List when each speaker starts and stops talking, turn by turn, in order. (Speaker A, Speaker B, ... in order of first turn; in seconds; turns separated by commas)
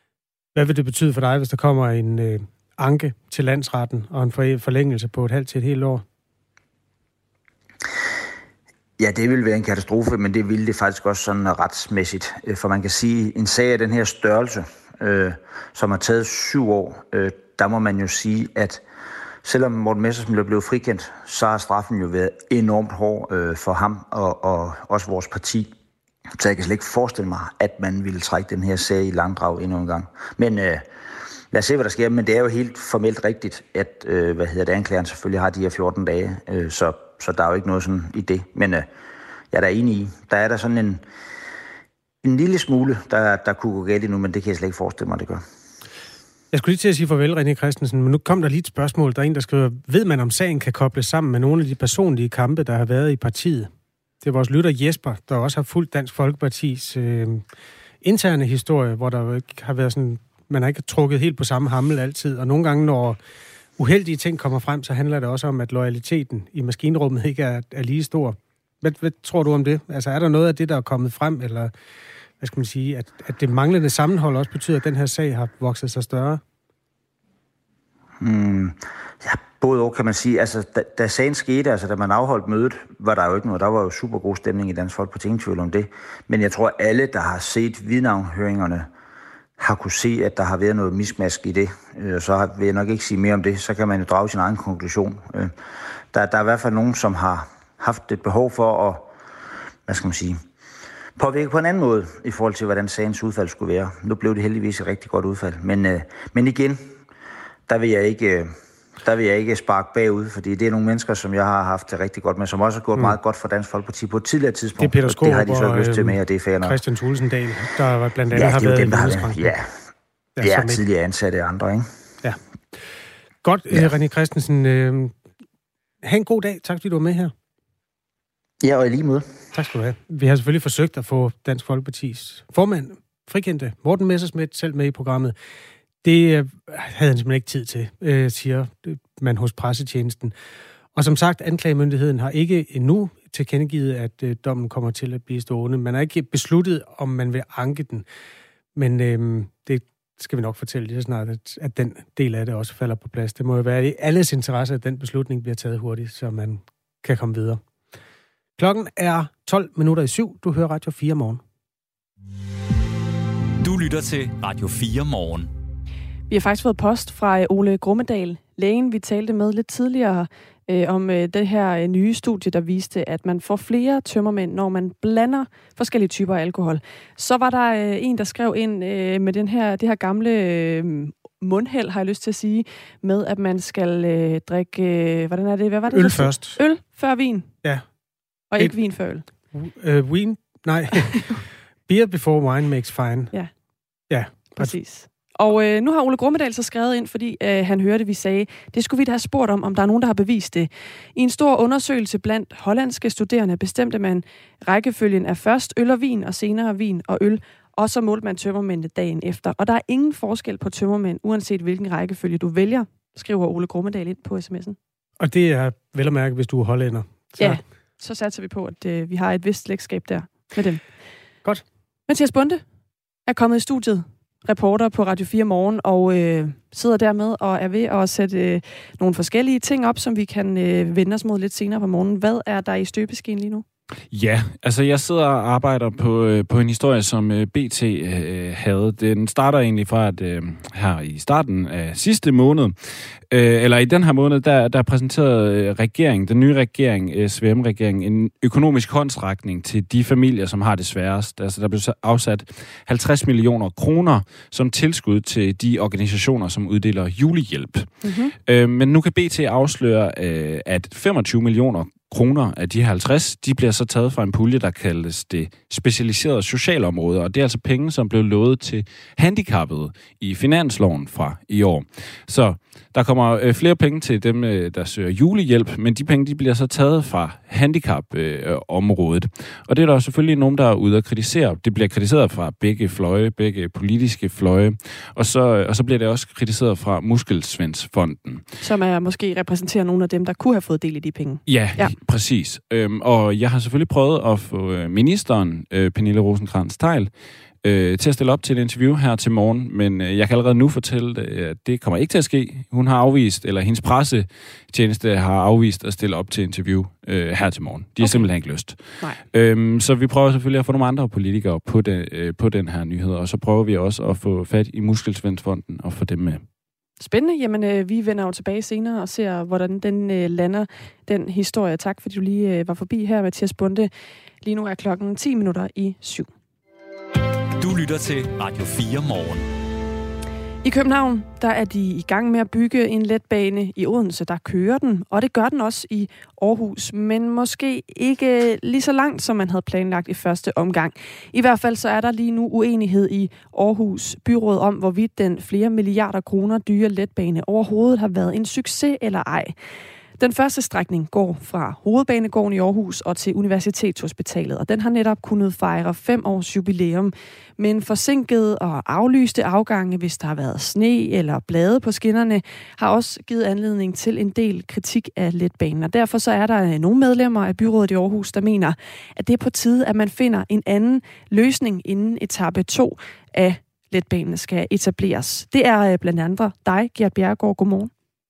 Speaker A: 0.6-6.0, Speaker B: 9.0-18.8, Speaker B: 19.4-25.7, Speaker B: 26.4-30.9, Speaker B: 31.5-38.9, Speaker B: 39.5-41.0, Speaker B: 42.2-45.4, Speaker A: 46.5-53.7, Speaker A: 54.2-57.4, Speaker A: 58.0-63.2, Speaker A: 63.8-71.7, Speaker A: 72.4-76.4, Speaker B: 78.2-88.9, Speaker B: 89.6-95.5, Speaker B: 96.1-99.1, Speaker B: 99.9-100.4, Speaker B: 101.2-106.8, Speaker B: 107.7-116.8, Speaker A: 114.8-119.5, Speaker B: 118.3-119.7, Speaker A: 120.4-120.8, Speaker B: 120.4-121.9, Speaker A: 123.4-125.2, Speaker A: 126.0-127.3, Speaker B: 128.6-129.3, Speaker A: 129.5-135.3, Speaker A: 136.0-140.3, Speaker A: 140.9-148.1, Speaker A: 148.8-157.6, Speaker A: 158.6-161.4, Speaker C: 163.6-165.5, Speaker D: 166.3-187.6, Speaker A: 185.9-186.6, Speaker D: 188.5-189.2, Speaker A: 189.5-193.3, Speaker A: 194.1-194.8, Speaker D: 194.5-214.8, Speaker A: 215.2-217.6, Speaker D: 217.4-220.8, Speaker D: 222.1-222.6, Speaker D: 223.3-233.7, Speaker E: 234.1-288.5, Speaker D: 258.0-258.3, Speaker D: 288.6-292.0, Speaker E: 291.5-316.5, Speaker D: 308.0-309.2, Speaker D: 317.0-323.9, Speaker D: 324.4-326.3, Speaker C: 327.6-329.5, Speaker D: 330.6-349.5, Speaker D: 350.2-377.9